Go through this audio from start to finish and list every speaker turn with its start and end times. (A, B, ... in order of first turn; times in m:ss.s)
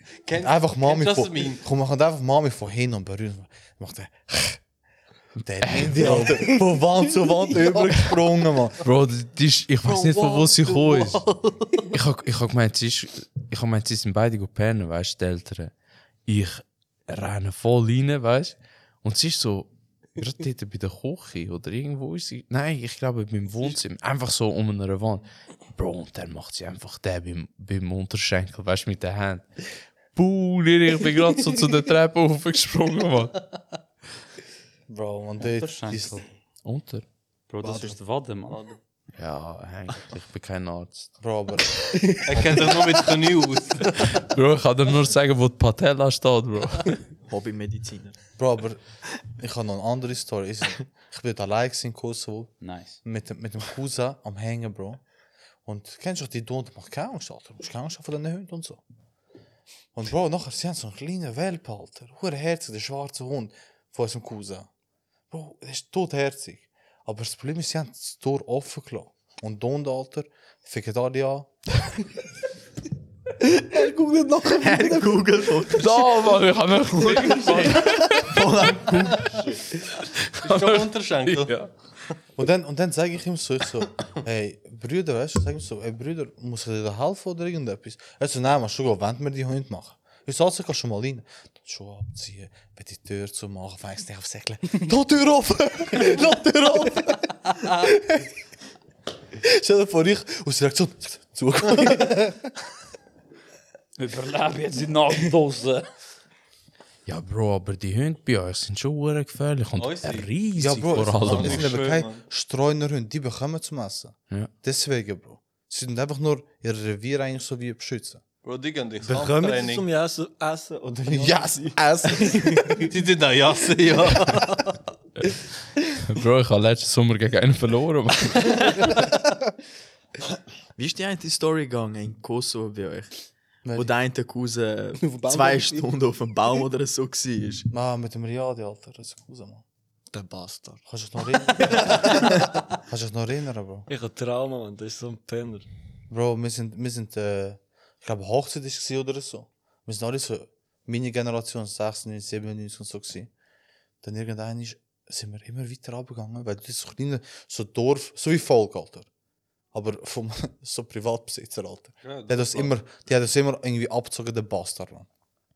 0:00.2-0:01.6 A
0:00.4-0:04.6 B
0:05.4-0:08.8 B
0:05.6-0:06.6 C
0:08.8-0:11.3 C
0:09.8-0:11.8 A
0:11.9-0:15.7 C
0:16.3-0:29.5 C
0:30.2-0:33.4 C
0:34.9-0:36.2 B
0:35.4-0:36.2 D
0:36.6-0:37.0 C
0:37.5-0:38.6 D
0:37.6-0:38.0 E
0:38.5-0:38.8 A
0:39.2-0:41.2 C
0:41.2-0:41.9 B
0:42.2-0:44.2 A
0:44.1-0:47.0 C
0:47.3-0:48.2 F
0:48.4-0:55.0 B
0:52.6-0:53.0 D
0:55.7-0:58.8 B
0:59.9-1:04.7 B
1:05.3-1:11.5 B
1:13.4-1:15.6 E
1:14.5-1:19.4 F
1:15.8-1:18.4 C
1:20.4-1:21.6 A
1:20.4-1:21.7 C
1:22.4-1:38.2 B
1:39.4-1:42.5 B
1:44.0-1:45.9 D
1:47.1-1:51.8 C
1:49.8-1:50.3 A
1:50.6-1:58.2 B
1:51.0-1:52.2 A
1:58.4-1:59.9 A
1:59.0-2:02.4 G
2:01.1-2:02.8 B
2:02.8-2:04.8 A
2:06.0-2:09.0 C
2:10.8-2:13.2 F
2:13.6-2:13.9 B
2:13.7-2:17.7 F
2:15.0-2:15.9 E
2:17.7-2:19.6 B
2:20.1-2:20.8 G
2:20.9-2:23.9 B
2:23.9-2:25.7 G
2:26.1-2:33.3 B
2:34.0-2:39.1 B
2:39.7-2:45.1 B
2:42.0-2:42.8 A